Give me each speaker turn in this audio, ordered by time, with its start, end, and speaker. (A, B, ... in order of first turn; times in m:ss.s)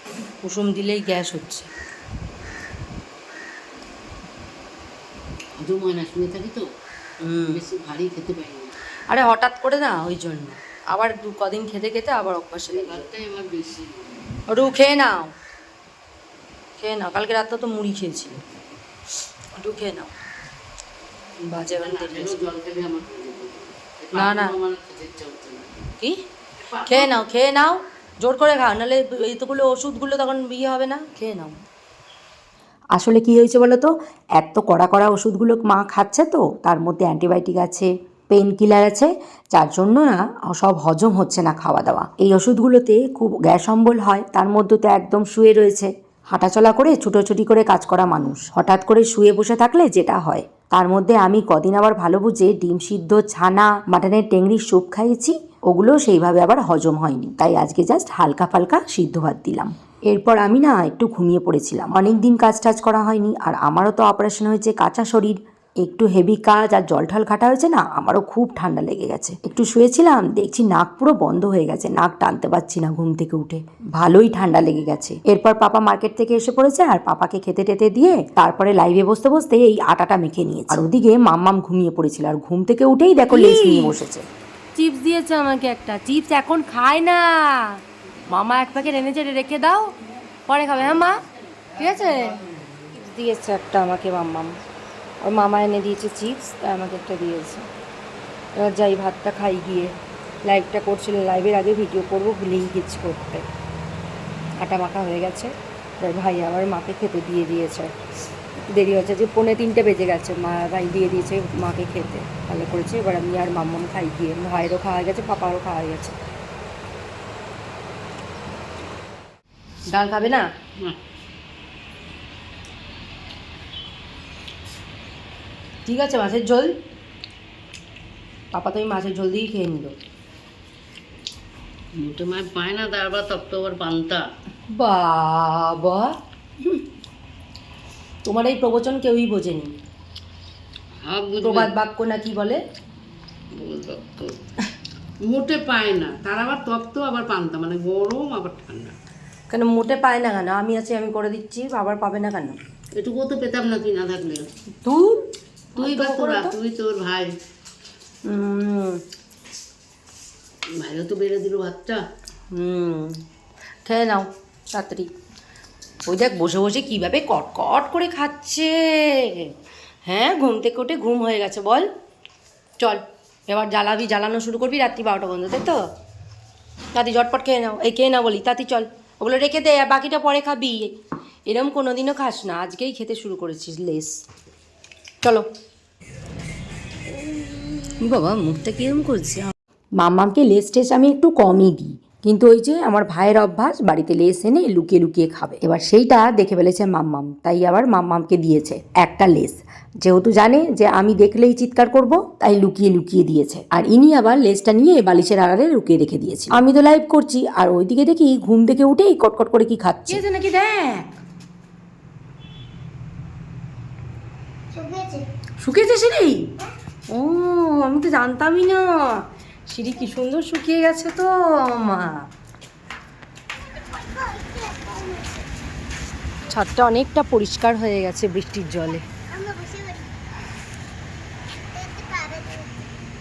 0:00.4-0:01.7 A
0:05.6-0:06.7 B
0:07.2-0:07.6 A
0:07.4-0:08.8 B
0:09.1-0:13.0 A
0:12.7-0:14.1 B
0:14.5-0:15.3 A
0:16.8-0:18.4 A
0:19.6-0:20.1 A
0:21.5-0:22.4 A
0:21.6-0:25.9 B
0:24.1-0:24.6 A
0:26.6-0:27.2 B
0:26.9-0:31.6 A
0:32.9-1:24.3 C
1:23.3-1:24.0 A
1:24.8-1:29.9 A
1:30.5-1:31.2 A
1:30.8-1:32.9 B
1:31.8-1:34.6 A
1:35.2-1:37.7 A
1:38.6-1:43.4 A
1:44.6-1:47.9 A
1:48.7-1:56.1 A
1:59.9-2:00.4 A
2:05.8-2:06.7 A
2:08.5-2:10.0 A
2:11.9-2:14.3 B
2:14.7-2:16.1 A
2:18.2-2:19.7 A
2:21.0-2:21.7 B
2:21.4-2:22.6 A
2:23.5-2:24.4 B
2:25.2-2:28.9 B
2:29.5-2:32.6 A
2:32.9-2:34.5 B
2:34.8-2:35.2 A
2:35.7-2:36.5 A
2:35.8-2:37.3 B
2:38.2-2:39.0 A
2:40.7-2:42.0 B
2:42.5-2:43.2 A
2:43.8-2:45.1 A
2:46.0-2:49.5 A
2:50.0-2:51.9 A
2:52.8-2:55.8 A
2:56.9-3:00.9 A
3:01.5-3:04.2 A
3:07.2-3:08.0 D
3:08.0-3:09.5 A
3:10.0-3:30.2 C
3:30.1-3:31.1 A
3:34.7-3:35.2 D
3:35.6-3:36.5 A
3:37.1-3:42.2 A
3:43.6-3:45.5 D
3:46.5-3:49.0 A
3:49.3-3:50.2 D
3:51.5-3:52.8 D